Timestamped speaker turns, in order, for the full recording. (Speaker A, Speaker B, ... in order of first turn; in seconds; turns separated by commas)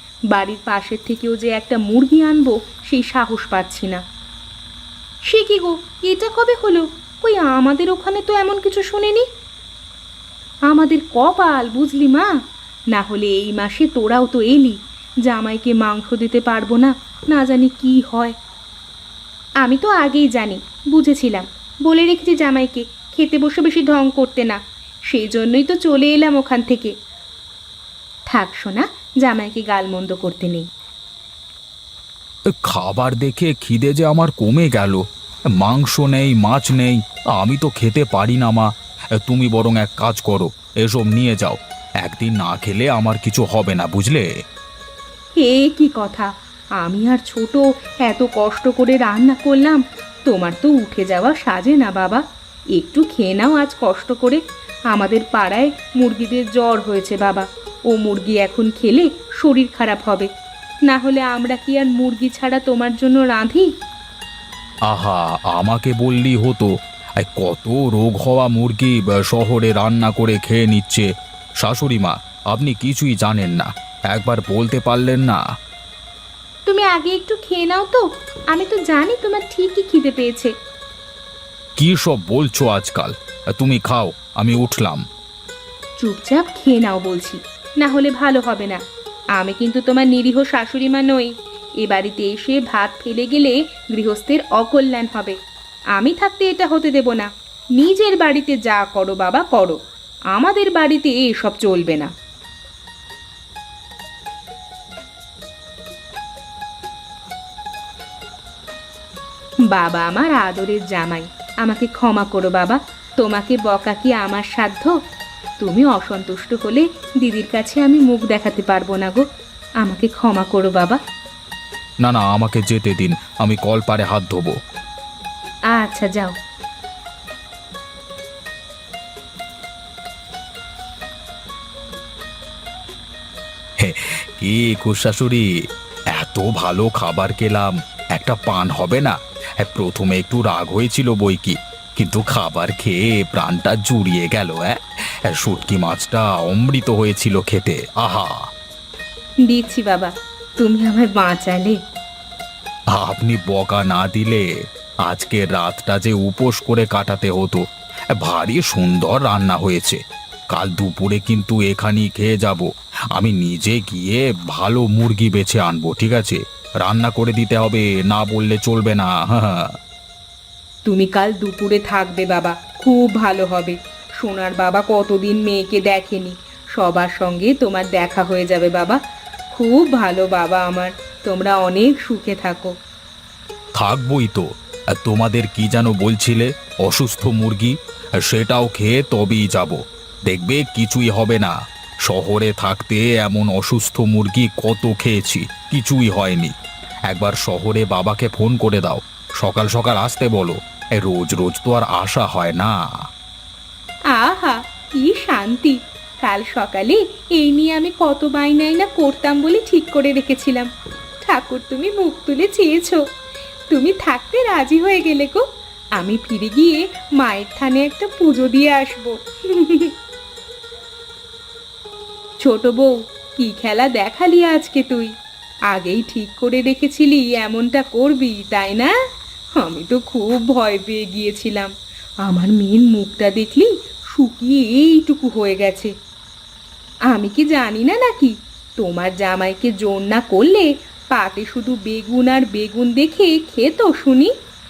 Speaker A: 0.3-4.0, Speaker A: 5.3-9.2, Speaker A: 10.7-12.3, Speaker A: 12.9-18.3, Speaker A: 19.6-24.6, Speaker A: 25.1-26.9, Speaker A: 28.3-30.6, Speaker B: 32.6-35.0, Speaker B: 35.6-38.7, Speaker B: 39.2-44.3, Speaker A: 45.4-46.3, Speaker A: 46.8-52.2, Speaker A: 52.8-54.4, Speaker A: 54.9-60.3, Speaker A: 60.9-63.6, Speaker B: 64.9-66.7, Speaker B: 67.2-71.1, Speaker B: 71.6-75.4, Speaker A: 76.7-80.5, Speaker B: 81.8-85.0, Speaker A: 86.0-88.8, Speaker A: 89.4-91.3, Speaker A: 91.8-95.3, Speaker A: 96.0-99.8, Speaker A: 100.3-102.1, Speaker A: 109.7-114.9, Speaker A: 115.6-119.2, Speaker A: 119.8-121.0, Speaker B: 122.0-124.5, Speaker A: 125.7-126.3, Speaker B: 133.8-135.4, Speaker B: 136.2-144.8, Speaker B: 145.3-148.4, Speaker A: 149.5-151.8, Speaker B: 152.9-154.4, Speaker B: 155.1-157.6, Speaker B: 158.2-160.0, Speaker B: 160.5-169.7, Speaker A: 170.8-179.0, Speaker A: 179.5-182.7, Speaker B: 183.8-191.5, Speaker B: 192.1-196.5, Speaker B: 197.1-202.7, Speaker A: 204.1-210.7, Speaker A: 211.2-213.0, Speaker A: 213.7-215.4, Speaker A: 216.0-219.9, Speaker A: 222.4-225.1, Speaker A: 225.7-228.9, Speaker A: 229.6-231.7, Speaker A: 232.2-235.9, Speaker A: 237.1-244.3